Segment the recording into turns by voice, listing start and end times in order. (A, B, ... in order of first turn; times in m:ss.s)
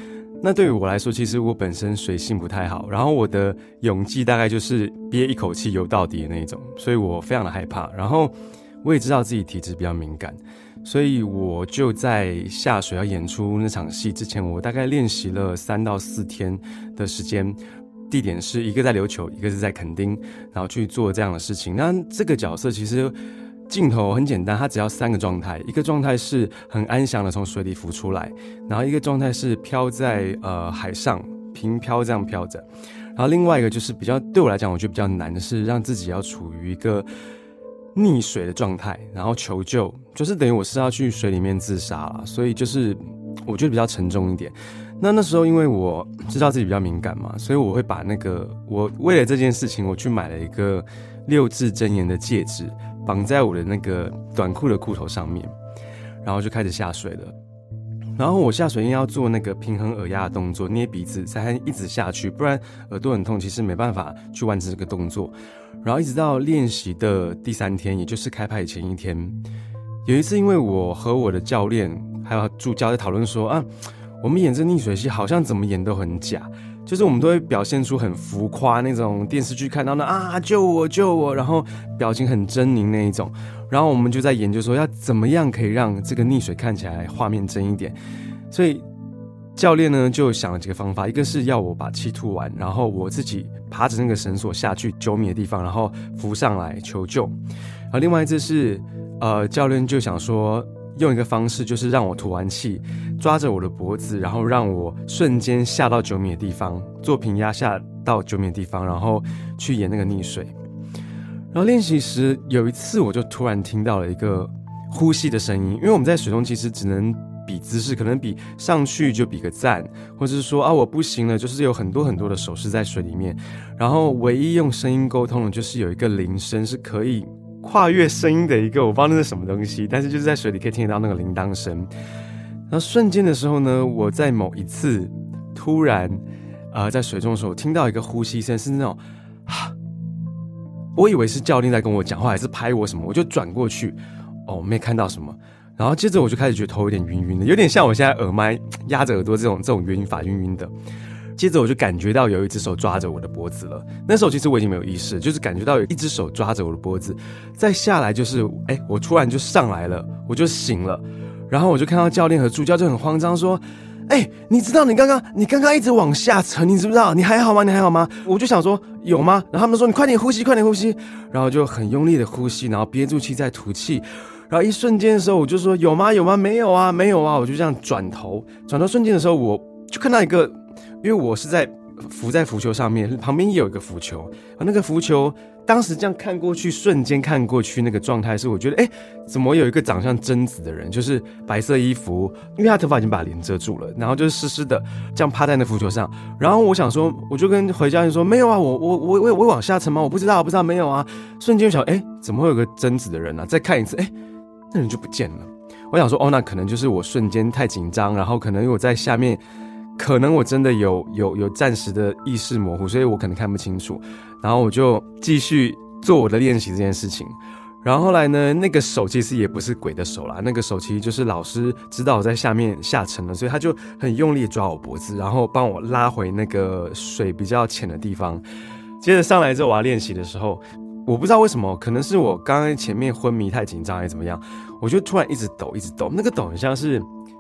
0:00.4-0:17.6 A
0:18.1-0:23.2 A
0:23.7-0:32.6 A
0:33.2-0:37.1 A
0:38.0-0:55.5 A
0:56.2-0:57.3 A
0:58.2-1:09.4 A
1:10.1-1:13.7 A
1:14.2-1:28.0 A
1:28.5-1:28.8 A
1:29.6-1:37.4 A
1:37.9-1:50.5 A
1:51.5-2:11.9 A
2:12.7-2:16.2 A
2:16.7-2:19.7 A
2:21.0-2:30.7 A
2:31.4-3:24.1 A
3:24.7-3:29.4 A
3:30.0-3:48.4 A
3:49.0-3:57.1 A